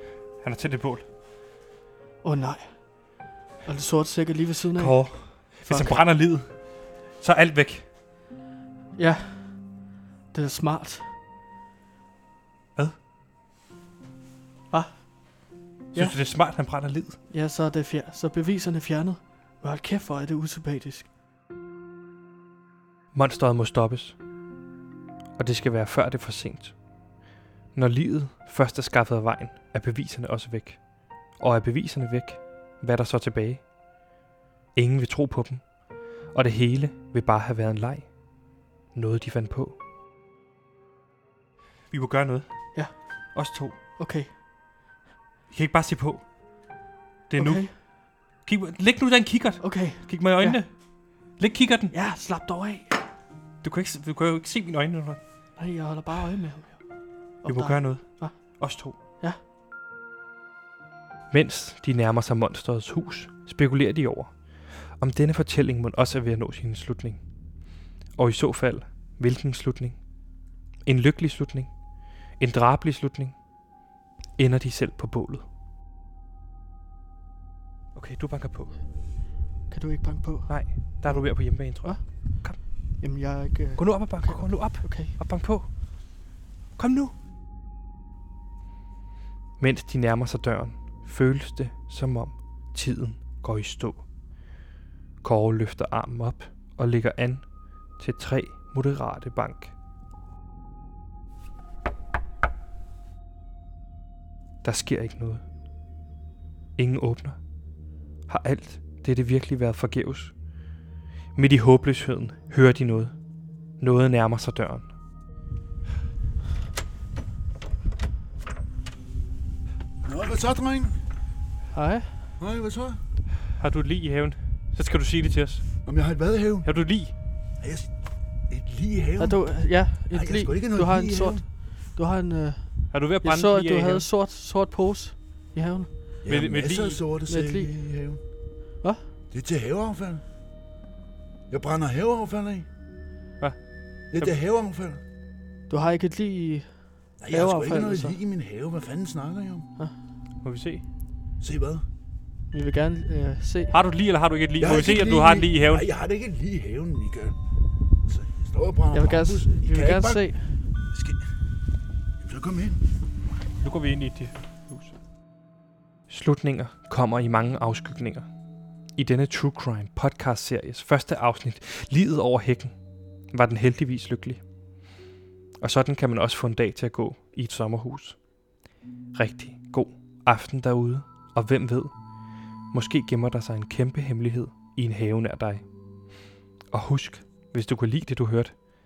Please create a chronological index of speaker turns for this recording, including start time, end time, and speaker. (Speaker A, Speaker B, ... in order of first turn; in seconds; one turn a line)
Speaker A: 0.4-1.1
Speaker B: 2.2-6.1
Speaker A: 4.8-6.5
Speaker A: 7.2-7.9
Speaker B: 8.9-11.1
Speaker B: 14.7-15.1
Speaker A: 15.9-17.2
Speaker B: 15.9-16.2
Speaker B: 17.3-21.1
Speaker A: 23.1-24.2
Speaker A: 25.4-26.8
Speaker A: 27.8-30.8
Speaker A: 31.4-33.7
Speaker A: 34.8-35.6
Speaker A: 36.3-38.1
Speaker A: 38.9-39.8
Speaker A: 41.9-42.7
Speaker A: 43.4-43.8
Speaker B: 44.0-44.3
Speaker A: 45.5-46.2
Speaker A: 47.3-47.9
Speaker B: 47.4-47.7
Speaker A: 48.4-50.7
Speaker B: 49.6-50.6
Speaker A: 51.4-51.9
Speaker B: 51.9-52.9
Speaker A: 53.6-55.2
Speaker B: 55.6-56.8
Speaker A: 57.4-59.0
Speaker B: 57.4-59.4
Speaker A: 61.3-67.2
Speaker A: 68.2-70.0
Speaker A: 70.8-71.8
Speaker A: 72.4-73.4
Speaker A: 74.4-75.4
Speaker A: 78.0-78.8
Speaker B: 79.7-85.2
Speaker A: 80.5-82.6
Speaker A: 83.8-85.7
Speaker A: 86.8-87.1
Speaker A: 89.6-94.1
Speaker A: 95.2-99.7
Speaker A: 104.6-105.4
Speaker A: 106.8-107.4
Speaker A: 108.3-110.4
Speaker A: 111.4-113.1
Speaker A: 113.8-114.9
Speaker C: 120.0-121.0
Speaker B: 121.7-122.2
Speaker C: 122.4-123.0
Speaker A: 123.6-125.6
Speaker C: 125.8-126.7
Speaker A: 126.6-127.1
Speaker C: 127.6-127.9
Speaker C: 128.5-131.4
Speaker B: 129.2-135.9
Speaker A: 132.9-134.1
Speaker C: 136.2-138.2
Speaker A: 136.3-137.0
Speaker B: 137.3-137.8
Speaker B: 138.8-139.1
Speaker C: 139.3-140.2
Speaker C: 141.5-142.7
Speaker C: 144.1-145.0
Speaker B: 145.7-148.2
Speaker C: 147.2-149.7
Speaker A: 150.4-150.8
Speaker C: 151.4-151.8
Speaker B: 152.5-153.8
Speaker A: 153.7-155.9
Speaker C: 154.6-157.3
Speaker C: 158.1-160.3
Speaker B: 158.9-160.6
Speaker C: 162.2-162.8
Speaker A: 163.6-164.9
Speaker A: 166.1-168.3
Speaker A: 169.0-172.7
Speaker A: 173.3-174.4
Speaker A: 175.6-178.2
Speaker A: 179.1-181.9
Speaker A: 182.7-185.7
Speaker A: 186.7-188.6